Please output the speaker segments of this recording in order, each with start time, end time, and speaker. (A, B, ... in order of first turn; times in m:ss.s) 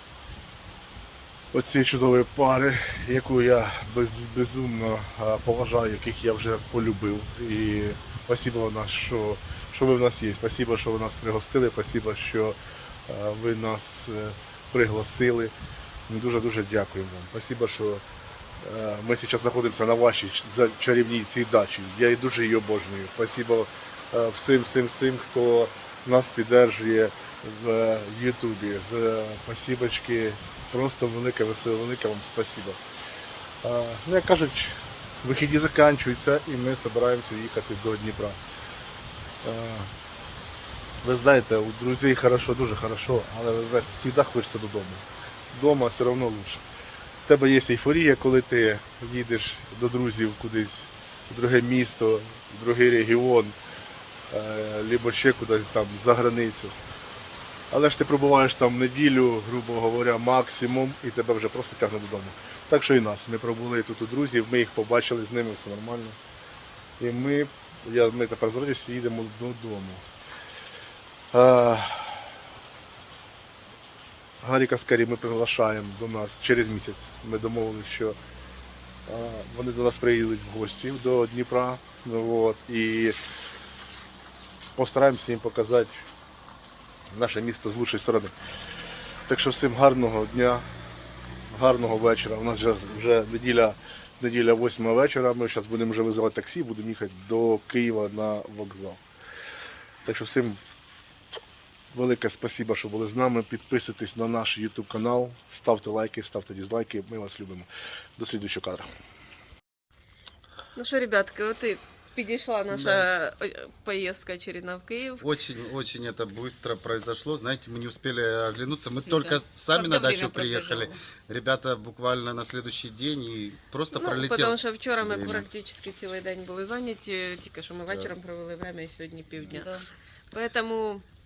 0:01.5-0:12.6 A
0:13.1-0:15.5 A
0:16.1-0:18.0 A
0:18.6-0:32.8 A
0:33.6-0:38.4 A
0:39.4-0:39.9 A
0:41.0-0:46.6 A
0:47.3-0:53.6 A
0:54.3-0:56.8 A
0:57.7-1:06.2 A
1:07.0-1:10.0 A
1:11.3-1:12.3 A
1:14.4-1:18.2 A
1:19.1-1:23.2 A
1:24.8-1:26.1 A
1:27.1-1:28.4 A
1:29.3-1:30.6 A
1:31.5-1:39.0 A
1:40.0-1:40.6 A
1:41.9-1:48.9 A
1:50.8-1:55.3 B
1:52.7-1:53.1 C
1:55.2-2:05.5 C
1:59.1-2:01.0 D
2:03.9-2:09.7 B
2:07.9-2:08.2 C
2:09.4-2:09.8 D
2:10.3-2:11.0 B